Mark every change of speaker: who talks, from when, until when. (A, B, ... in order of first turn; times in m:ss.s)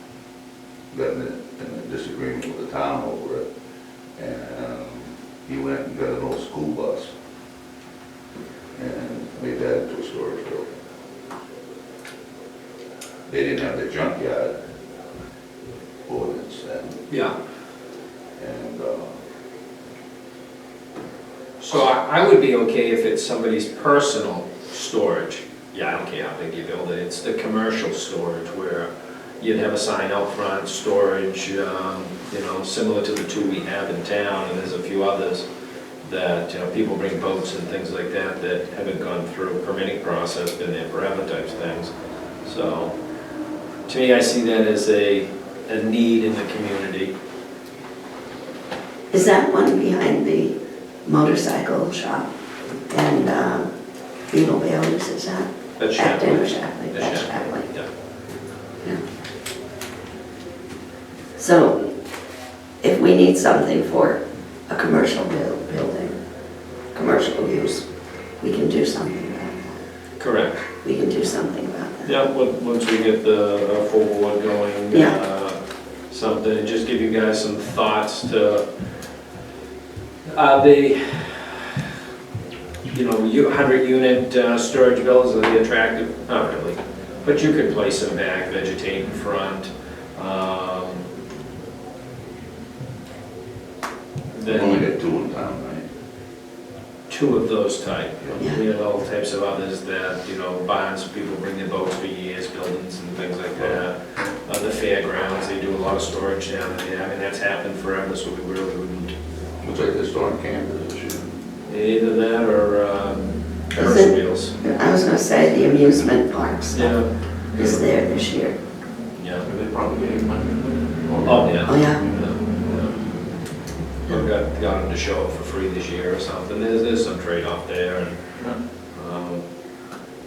0:00.9-0:03.5 A
0:04.2-0:07.1 A
0:08.8-0:10.8 A
0:13.3-0:14.5 A
0:16.1-0:17.0 A
0:17.1-0:17.3 B
0:18.4-0:19.1 A
0:21.6-0:28.9 B
0:29.4-0:35.5 B
0:36.0-0:41.9 B
0:42.4-0:42.9 B
0:43.9-0:47.1 B
0:49.1-0:52.3 C
0:52.9-0:53.7 C
0:54.3-0:57.7 C
0:55.8-0:57.9 B
1:01.4-1:01.8 C
1:02.8-1:06.2 C
1:06.9-1:07.8 C
1:08.4-1:09.8 C
1:10.2-1:10.6 B
1:10.8-1:12.1 C
1:12.1-1:15.6 B
1:16.1-1:18.6 B
1:20.3-1:21.7 B
1:22.9-1:31.0 B
1:34.3-1:34.9 B
1:34.5-1:35.8 A
1:37.1-1:44.0 B
1:44.5-1:49.1 B
1:49.6-1:51.3 A
1:51.7-1:54.6 B
1:53.8-1:57.0 C
1:56.8-1:57.8 B
1:57.6-1:58.6 C
1:59.2-1:59.4 B
1:59.4-2:02.1 D
2:01.2-2:03.0 B
2:01.7-2:02.0 C
2:04.1-2:08.2 B
2:08.9-2:09.4 B